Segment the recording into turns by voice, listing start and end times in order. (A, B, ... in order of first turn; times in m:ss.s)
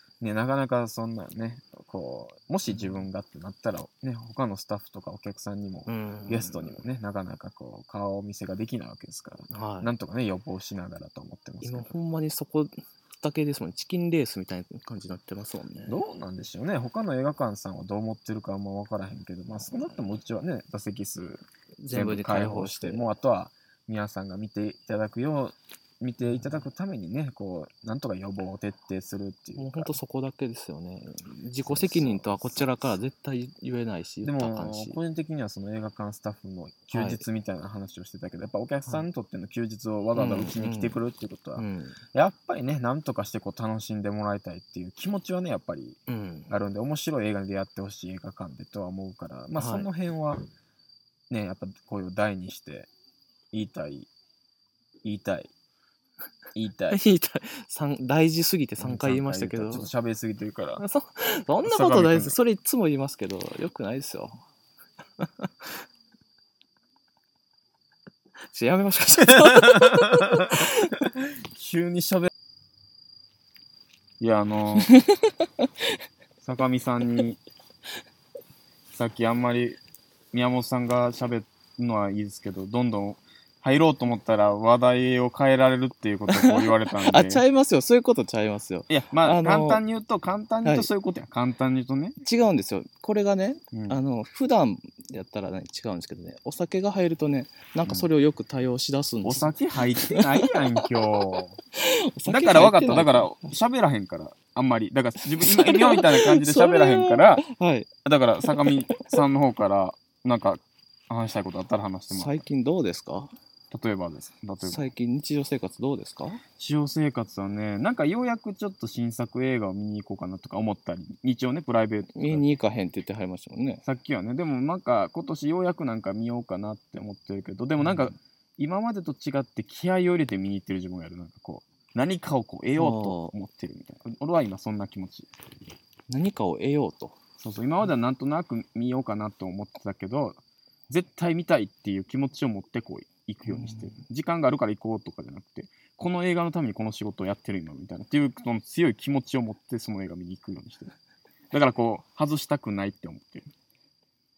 0:00.2-0:11.9 A
0:02.7-0:03.0 B
0:05.9-0:06.8 B
0:09.5-0:09.9 B
0:11.6-0:16.0 B
0:15.9-0:30.0 A
0:19.5-0:20.2 B
0:21.8-0:23.1 B
0:26.2-0:26.6 B
0:29.6-0:35.0 B
0:31.6-0:33.0 A
0:34.2-0:46.0 A
0:36.9-0:37.2 B
0:40.1-0:41.0 B
0:41.6-0:42.0 B
0:46.1-0:46.5 B
0:46.5-0:50.5 A
0:49.6-0:49.9 B
0:51.3-0:52.9 A
0:53.5-0:54.1 A
0:55.0-0:55.5 A
0:56.5-0:57.0 A
0:56.9-0:59.9 B
0:58.8-1:00.8 A
1:00.8-1:04.4 B
1:01.6-1:02.4 A
1:05.2-1:05.7 B
1:08.5-1:11.1 B
1:09.4-1:12.3 A
1:14.2-1:14.9 A
1:14.8-1:15.7 B
1:16.4-1:17.4 A
1:18.9-1:19.8 A
1:20.3-1:27.4 A
1:26.3-1:29.8 B
1:28.9-1:32.2 A
1:30.6-1:30.9 B
1:32.2-1:40.8 B
1:33.7-1:34.0 A
1:39.2-1:41.6 A
1:41.8-1:43.5 B
1:42.3-1:47.4 A
1:45.4-1:47.9 B
1:48.0-1:52.4 A
1:48.5-1:49.2 B
1:52.1-1:53.3 B
1:53.7-1:54.9 A
1:54.6-1:56.4 B
1:56.6-2:02.4 A
2:02.1-2:03.8 B
2:03.8-2:15.3 A
2:07.8-2:08.1 B
2:12.8-2:13.3 B
2:16.1-2:17.2 B
2:17.4-2:30.9 A
2:23.4-2:24.0 B
2:31.5-2:33.5 A